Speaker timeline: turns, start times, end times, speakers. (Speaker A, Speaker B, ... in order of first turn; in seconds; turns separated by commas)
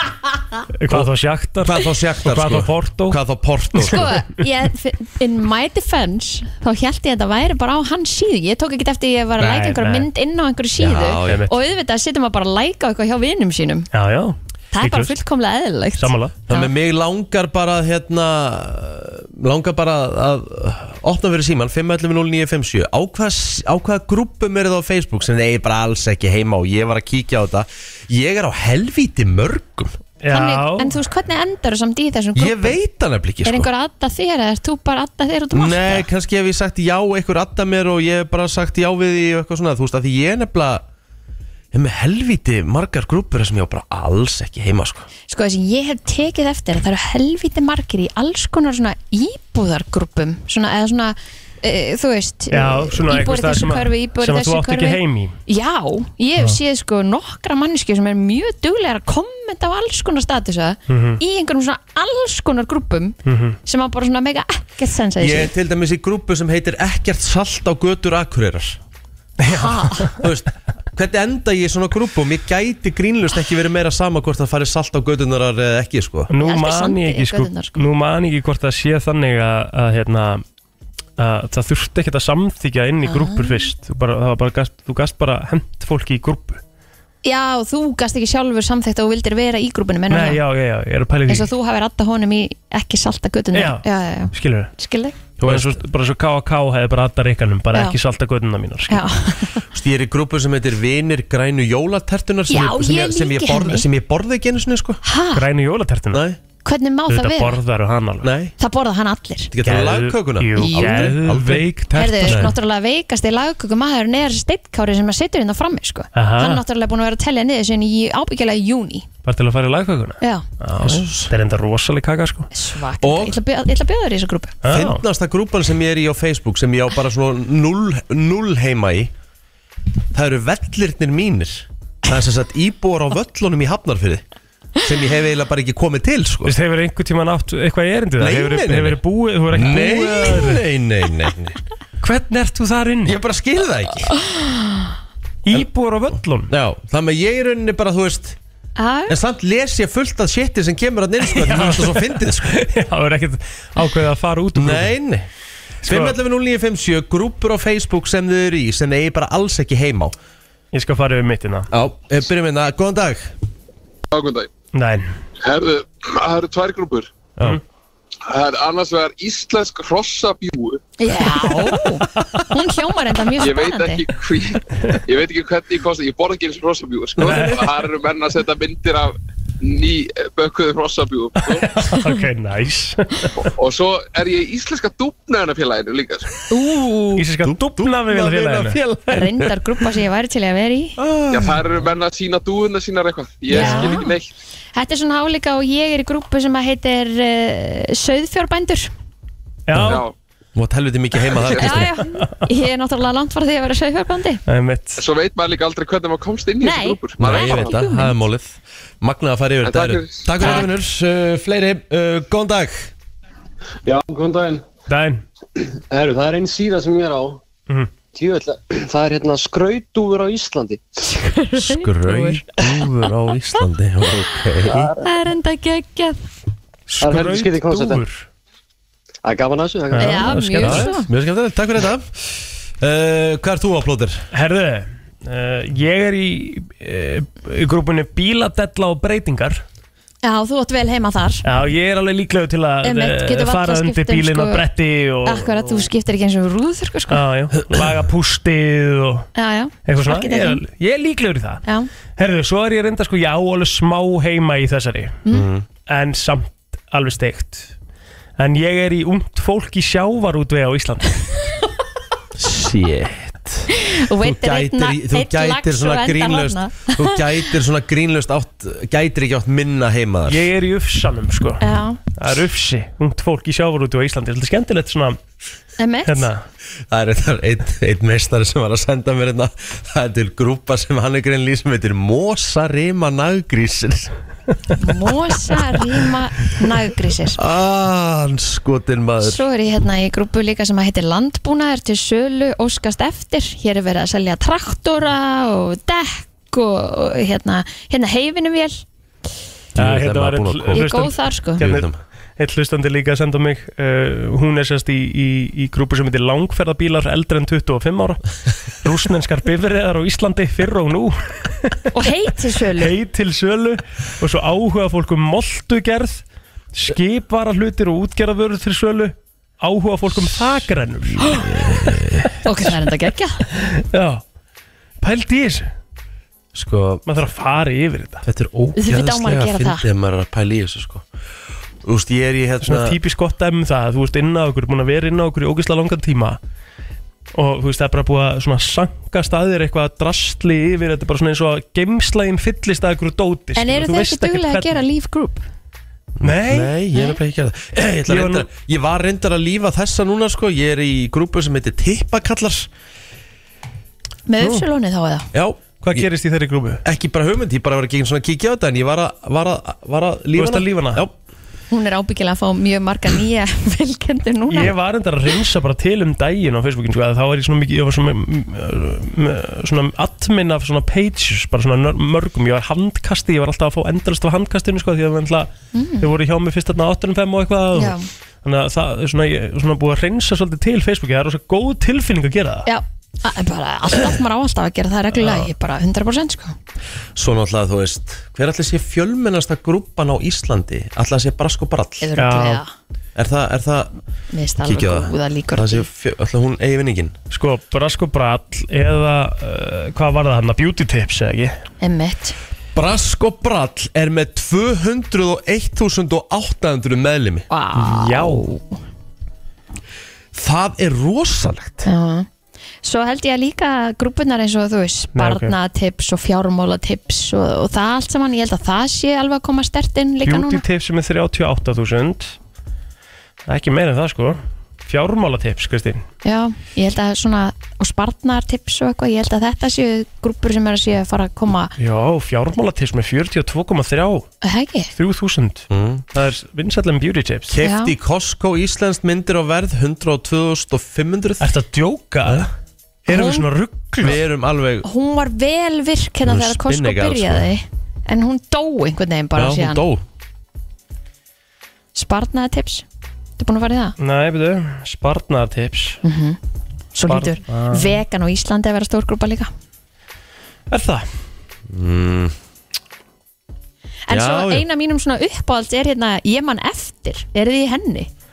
Speaker A: 0.8-3.2, Speaker B: 0.9-4.1, Speaker C: 3.8-13.9, Speaker A: 9.4-10.1, Speaker B: 10.8-11.5, Speaker A: 11.3-11.5, Speaker A: 13.9-15.1, Speaker C: 14.7-16.7, Speaker A: 16.0-16.4, Speaker B: 16.5-30.0, Speaker A: 30.2-30.9, Speaker C: 30.3-32.8, Speaker B: 32.4-33.7, Speaker C: 33.4-36.1, Speaker B: 35.5-40.8, Speaker B: 41.7-45.1, Speaker C: 45.3-65.5, Speaker A: 52.5-55.4, Speaker A: 60.9-61.2, Speaker A: 63.2-63.6, Speaker B: 65.2-68.8, Speaker A: 69.4-70.2, Speaker C: 69.5-70.1, Speaker B: 70.2-76.3, Speaker A: 76.3-80.4, Speaker C: 76.4-77.8, Speaker A: 81.2-86.6, Speaker C: 83.0-83.7, Speaker C: 87.2-90.4, Speaker A: 90.1-91.5, Speaker C: 91.3-95.2, Speaker A: 93.5-94.7, Speaker B: 95.4-95.8, Speaker A: 95.4-99.2, Speaker C: 98.9-99.7, Speaker B: 99.7-105.0, Speaker C: 102.5-103.8, Speaker C: 105.0-105.5, Speaker A: 105.3-106.2, Speaker B: 106.1-106.4, Speaker C: 106.6-107.6, Speaker A: 107.1-108.3, Speaker B: 108.2-108.5, Speaker C: 108.6-109.5, Speaker B: 109.5-112.5, Speaker A: 109.6-112.5, Speaker C: 110.6-111.2, Speaker C: 111.9-119.1, Speaker A: 116.2-116.6, Speaker A: 119.2-122.5, Speaker C: 120.2-120.5, Speaker B: 120.8-121.3, Speaker C: 122.5-124.6, Speaker B: 123.0-123.4, Speaker A: 124.6-125.0, Speaker B: 124.7-129.1, Speaker B: 130.1-134.2, Speaker B: 134.8-136.6, Speaker A: 136.4-140.6, Speaker B: 138.2-141.6, Speaker A: 142.0-143.2, Speaker B: 143.1-144.1, Speaker C: 144.3-144.8, Speaker A: 145.4-146.5, Speaker B: 146.5-148.4, Speaker C: 148.8-149.2, Speaker B: 149.1-152.6, Speaker A: 151.3-155.0, Speaker B: 154.6-155.3, Speaker A: 155.8-156.2, Speaker B: 155.8-160.2, Speaker A: 160.7-161.7, Speaker B: 161.7-163.3, Speaker D: 164.1-164.5, Speaker A: 164.7-165.1, Speaker D: 165.4-167.1, Speaker D: 168.3-170.8, Speaker C: 171.0-174.0, Speaker A: 171.4-172.5, Speaker D: 173.4-181.8, Speaker B: 177.2-177.6, Speaker A: 177.2-177.6, Speaker A: 181.7-183.5, Speaker D: 183.4-186.3, Speaker C: 186.5-187.2, Speaker A: 187.2-189.4, Speaker B: 187.4-189.3, Speaker C: 189.1-191.0, Speaker B: 191.0-191.7, Speaker D: 191.3-194.3, Speaker C: 193.5-194.1, Speaker A: 193.6-193.9, Speaker C: 194.8-198.9, Speaker A: 199.7-200.0, Speaker B: 199.7-200.0, Speaker D: 199.8-200.1, Speaker B: 200.6-201.9, Speaker D: 201.4-201.8, Speaker C: 201.6-204.4, Speaker A: 204.5-205.0, Speaker D: 205.0-207.8, Speaker C: 206.6-208.2, Speaker B: 207.2-212.9, Speaker D: 209.7-210.7, Speaker C: 210.4-210.7, Speaker E: 213.8-214.6, Speaker A: 214.9-215.2, Speaker E: 215.6-217.4, Speaker E: 218.1-220.9, Speaker C: 221.1-222.6, Speaker B: 221.6-224.9, Speaker E: 224.7-225.1, Speaker C: 225.0-226.2, Speaker A: 226.9-228.2, Speaker E: 227.0-228.0, Speaker E: 229.2-230.3, Speaker A: 229.9-230.9, Speaker C: 230.0-231.1, Speaker B: 230.6-234.3, Speaker A: 234.3-239.6, Speaker C: 240.2-241.4, Speaker A: 241.4-245.8, Speaker C: 242.8-244.6, Speaker C: 245.2-247.2, Speaker A: 247.1-249.3, Speaker C: 249.4-250.6, Speaker A: 249.9-251.6, Speaker A: 252.2-255.2, Speaker B: 255.3-255.7, Speaker A: 255.9-257.7, Speaker A: 258.4-261.3, Speaker B: 262.4-270.5, Speaker C: 263.7-267.2, Speaker A: 270.3-271.6, Speaker C: 271.6-272.0, Speaker A: 272.1-275.2, Speaker C: 275.8-276.3, Speaker A: 276.1-276.4, Speaker B: 276.9-284.1, Speaker C: 284.8-287.4, Speaker B: 287.4-289.4, Speaker C: 289.2-298.8, Speaker B: 299.8-300.9, Speaker A: 299.8-308.2, Speaker C: 300.7-301.7, Speaker B: 301.6-302.0, Speaker A: 308.8-312.1, Speaker C: 311.9-312.9, Speaker A: 312.8-316.2, Speaker A: 316.7-322.3, Speaker B: 320.2-320.6, Speaker B: 321.2-322.3, Speaker C: 322.4-323.5, Speaker A: 323.5-324.2, Speaker A: 325.0-325.7, Speaker B: 326.5-327.1, Speaker A: 327.1-328.2, Speaker B: 328.2-331.1, Speaker C: 328.8-329.9, Speaker B: 331.8-333.0, Speaker A: 332.6-336.4, Speaker A: 337.4-344.7, Speaker C: 343.6-345.4, Speaker B: 346.2-352.7, Speaker A: 346.2-346.7, Speaker A: 348.1-348.5, Speaker C: 354.3-355.3, Speaker A: 354.4-354.7, Speaker B: 355.3-356.1, Speaker A: 355.8-356.8, Speaker B: 356.8-361.1, Speaker A: 360.4-361.0, Speaker C: 361.7-364.7, Speaker A: 364.5-382.7, Speaker C: 375.7-376.1, Speaker C: 377.8-378.1, Speaker C: 382.7-386.6, Speaker A: 385.1-385.5, Speaker B: 387.2-392.1, Speaker C: 392.0-392.7, Speaker A: 392.2-392.6, Speaker B: 393.2-393.9, Speaker C: 394.3-395.9, Speaker B: 394.6-397.1, Speaker A: 397.3-401.6, Speaker C: 401.8-402.4, Speaker B: 402.8-407.5, Speaker C: 407.5-408.8, Speaker A: 407.7-408.4, Speaker B: 410.3-411.9, Speaker C: 411.9-412.3, Speaker C: 412.8-420.6, Speaker A: 415.1-415.6, Speaker A: 420.2-422.4, Speaker A: 423.5-426.0, Speaker C: 426.2-431.7, Speaker A: 431.8-434.3, Speaker C: 434.4-434.9, Speaker A: 434.9-437.5, Speaker B: 435.7-436.0, Speaker B: 437.5-441.5, Speaker C: 437.6-437.9, Speaker A: 441.4-442.5, Speaker A: 443.1-444.2, Speaker C: 443.1-443.5, Speaker B: 444.0-444.9, Speaker C: 444.8-449.8, Speaker B: 446.2-447.5, Speaker B: 449.4-450.1, Speaker C: 451.9-452.9, Speaker C: 453.4-454.0, Speaker A: 454.0-456.0, Speaker C: 456.0-456.4, Speaker C: 456.9-459.5, Speaker A: 457.1-458.0, Speaker A: 460.7-461.1, Speaker B: 461.7-462.4, Speaker C: 464.1-468.1, Speaker B: 464.1-464.6